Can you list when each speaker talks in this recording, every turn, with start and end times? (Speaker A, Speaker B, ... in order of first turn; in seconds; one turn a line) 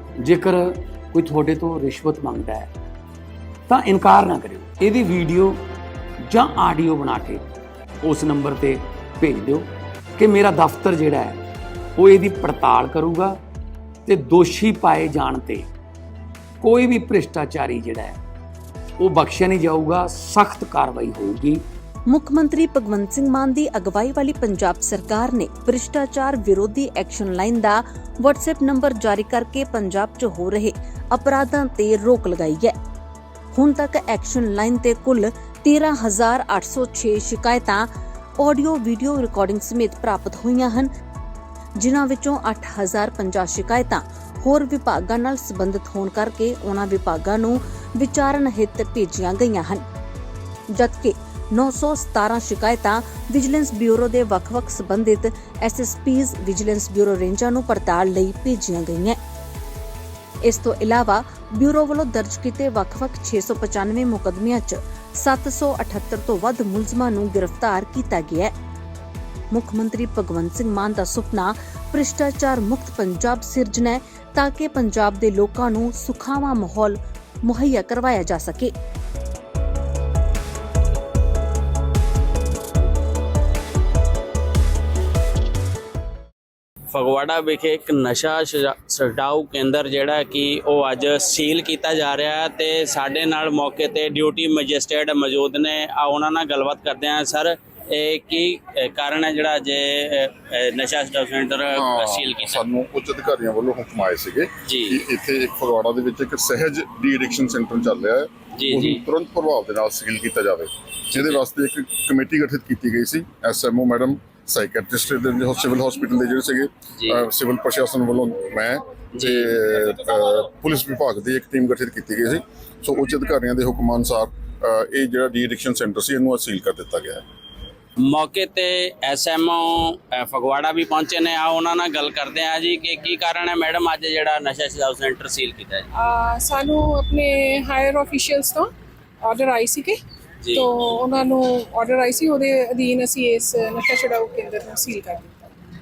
Speaker A: 0.2-2.7
Speaker A: 3.7-5.6
Speaker A: 6.2-7.5
Speaker A: 8.0-11.4
Speaker A: 12.0-13.4
Speaker A: 14.1-15.7
Speaker A: 16.6-18.2
Speaker A: 19.0-21.6
Speaker B: 22.1-32.8
Speaker B: 33.5-40.9
Speaker B: 41.8-49.8
Speaker B: 50.7-59.2
Speaker B: 60.4-68.5
Speaker B: 69.5-78.7
Speaker C: 86.9-102.6
Speaker D: 101.7-127.2
Speaker C: 104.7-105.0
Speaker C: 108.5-109.0
Speaker C: 111.1-111.4
Speaker C: 117.0-117.3
Speaker C: 119.1-119.5
Speaker C: 128.1-135.9
Speaker E: 136.0-138.6
Speaker E: 139.3-139.9
Speaker E: 140.9-145.3